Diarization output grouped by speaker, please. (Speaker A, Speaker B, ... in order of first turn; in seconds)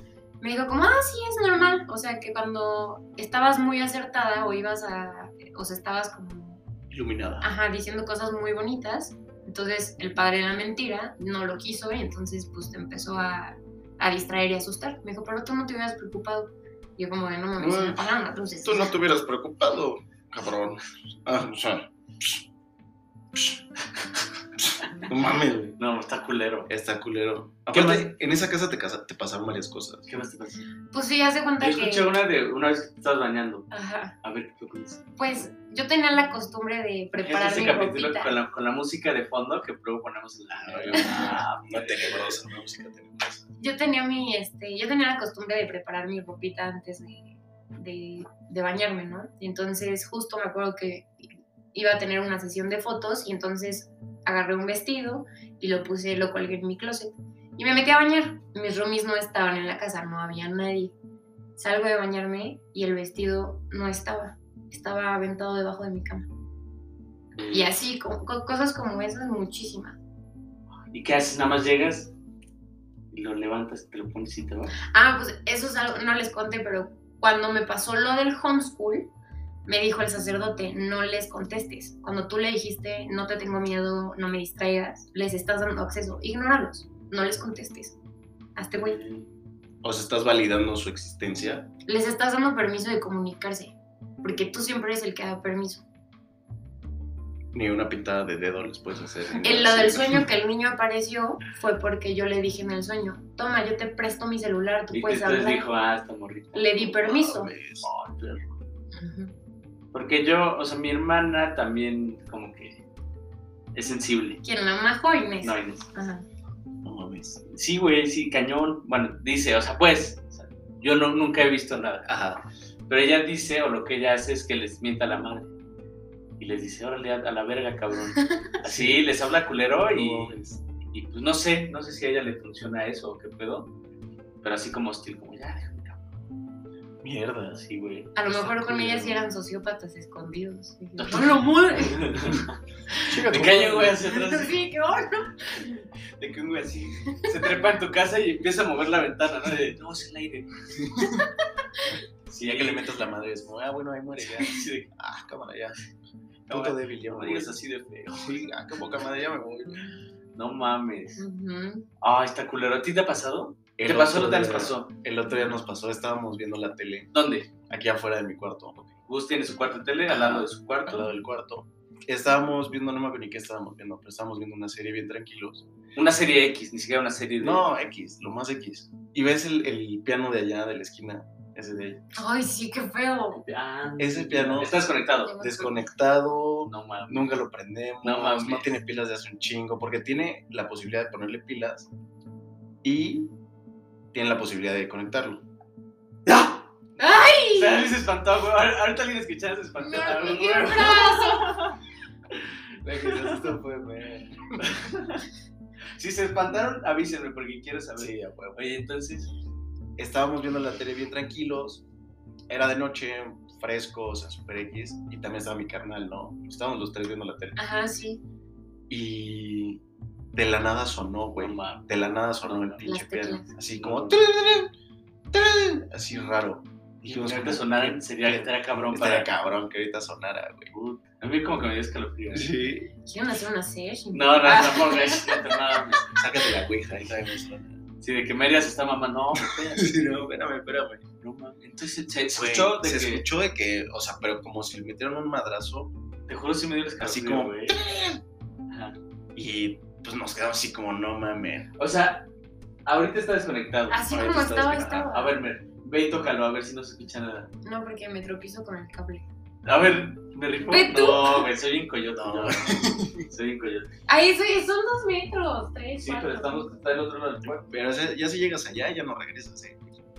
Speaker A: 0.4-6.6, 7.4-18.9, 30.9-32.1, 33.7-34.1, 35.2-38.4, 41.0-41.2, 43.6-51.1, 51.7-60.9, 61.6-66.3, 67.5-70.0, 74.9-79.1, 79.7-88.0, 88.6-89.0, 91.9-95.8, 99.4-105.7, 106.5-107.5, 108.9-109.3, 114.4-116.2, 138.2-142.1, 144.1-145.8, 161.2-161.8, 182.2-183.4, 185.2-185.8, 197.0-197.9, 199.8-201.6, 217.6-218.2, 222.8-223.5, 233.1-235.6, 253.9-255.3, 257.6-259.2, 260.7-261.5, 264.1-266.7
Speaker B: 6.9-7.5, 17.6-18.1, 18.6-22.4, 23.4-23.6, 25.0-25.8, 26.7-30.1, 40.5-43.5, 89.8-91.7, 97.5-100.3, 107.0-107.9, 116.8-117.4, 122.0-122.4, 128.6-129.0, 129.9-130.6, 137.0-137.6, 138.3-139.1, 143.1-144.1, 152.4-155.8, 156.5-159.9, 163.8-167.1, 167.7-168.9, 170.1-175.7, 177.4-182.0, 184.0-184.9, 185.4-191.9, 192.8-193.3, 194.1-195.4, 202.8-204.7, 208.0-208.6, 210.0-211.8, 212.5-217.6, 218.9-219.8, 220.3-224.7, 225.3-230.7, 232.3-232.9, 236.2-237.8, 239.4-241.0, 242.3-245.9, 247.0-248.2, 249.3-251.7, 254.1-255.1, 262.1-263.3, 267.6-269.8
Speaker C: 24.8-25.1, 25.8-26.7, 27.7-28.1, 30.1-30.7, 31.6-33.6, 34.2-35.2, 37.2-42.4, 67.3-67.7, 70.9-72.1, 73.1-74.8, 88.8-89.3, 104.9-107.0, 107.8-108.5, 109.9-112.8, 113.8-114.4, 115.4-115.9, 117.5-122.1, 122.9-125.5, 126.4-130.4, 130.9-133.7, 134.4-136.0, 137.5-138.7, 141.0-144.6, 146.2-150.5, 152.3-152.8, 154.2-154.9, 156.5-158.4, 160.3-161.2, 162.0-164.9, 167.1-167.5, 169.1-171.1, 176.0-177.7, 183.3-185.3, 186.7-187.4, 188.0-188.8, 196.2-196.7, 197.5-201.8, 203.0-203.6, 204.6-205.2, 206.0-209.3, 221.4-222.9, 223.6-224.2, 227.0-229.3, 230.7-232.5, 234.1-236.1, 238.0-240.3, 241.2-243.2, 246.3-247.8, 248.7-249.0, 251.8-252.3, 252.8-257.5, 259.6-263.9, 266.0-267.7